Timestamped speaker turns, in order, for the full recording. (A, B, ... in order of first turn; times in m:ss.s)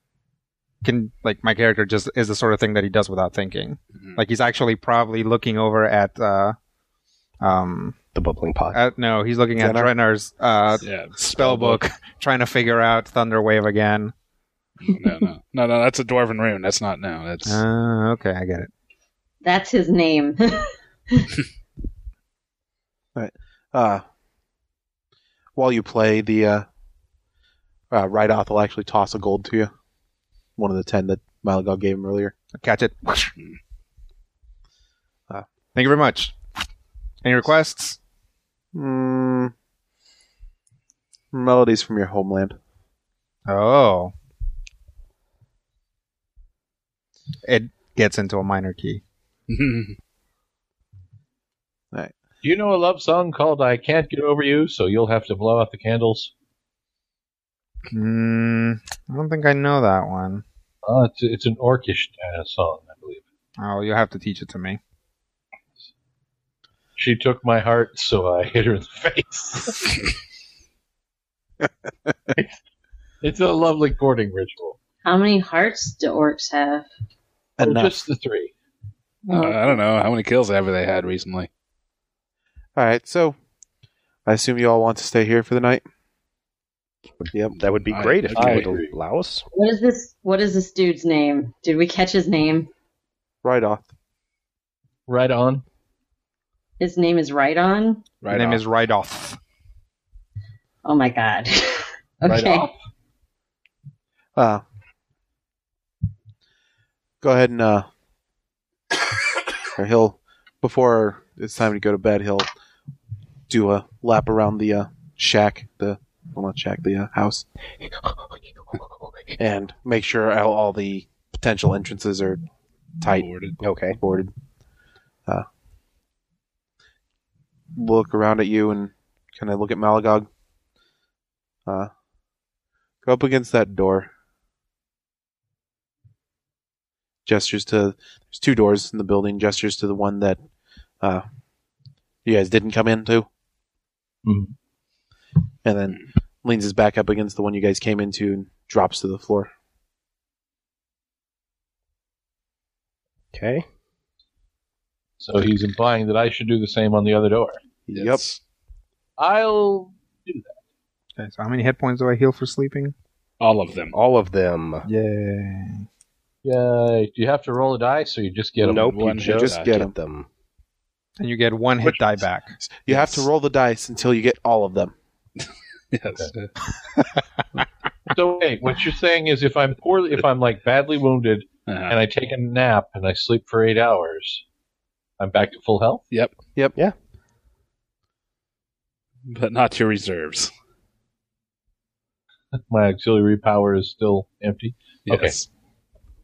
0:00.8-0:06.6 A
0:04.0-0:04.2 B
0:07.4-0:08.0 A
0:08.1-0:08.8 C
0:08.7-0:14.1 A
0:09.6-0:09.9 D
0:10.8-0:11.8 B
0:14.8-0:17.6 B
0:17.4-0:18.7 A
0:19.4-0:21.3 E
0:23.2-0:24.0 D
0:25.5-0:26.6 D
0:27.9-0:29.7 D
0:30.6-0:32.3 D
0:32.5-0:33.3 A
0:35.7-0:36.4 A
0:37.2-0:38.0 A
0:38.7-0:39.5 D
0:41.3-0:42.6 D
0:43.5-0:44.1 A
0:47.4-0:49.0 A
0:49.5-0:50.0 B
0:52.4-0:56.3 F
0:57.9-1:00.4 A
1:00.8-1:03.2 F
1:03.6-1:04.8 A
1:07.0-1:10.0 F
1:13.2-1:14.8 F
1:15.0-1:16.9 E
1:17.6-1:18.0 D
1:17.6-1:18.5 F
1:19.3-1:21.5 B
1:22.8-1:23.4 D
1:24.2-1:25.8 D
1:27.2-1:29.4 C
1:27.8-1:28.7 B
1:28.3-1:28.9 F
1:29.5-1:32.7 E
1:33.4-1:33.9 D
1:35.1-1:35.6 F
1:36.8-1:38.0 E
1:38.2-1:38.6 B
1:38.3-1:39.4 A
1:40.8-1:42.7 E
1:42.2-1:42.7 F
1:44.4-1:44.6 D
1:47.2-1:47.9 D
1:49.7-1:52.5 D
1:53.5-1:57.4 D
1:59.4-2:02.4 D
2:03.0-2:03.3 D
2:03.1-2:03.6 B
2:03.6-2:04.0 C
2:04.0-2:04.3 D
2:07.7-2:10.3 D
2:13.0-2:14.1 D
2:17.2-2:20.4 D
2:22.2-2:23.3 D
2:24.2-2:24.5 F
2:25.6-2:29.5 D
2:33.3-2:33.6 C
2:35.2-2:37.6 F
2:37.9-2:38.2 D
2:37.9-2:38.4 B
2:39.2-2:40.6 F
2:41.2-2:42.9 A
2:43.4-2:43.9 B
2:43.9-2:44.9 C
2:44.8-2:45.8 A
2:46.4-2:49.5 F
2:48.6-2:50.3 C
2:48.6-2:49.8 B
2:49.3-2:49.9 D
2:51.2-2:53.1 A
2:52.6-2:54.9 D
2:55.9-2:56.5 B
2:58.1-3:04.4 F
3:01.7-3:02.0 B
3:05.2-3:06.0 F
3:09.3-3:10.5 B
3:12.6-3:15.4 F
3:15.1-3:15.5 B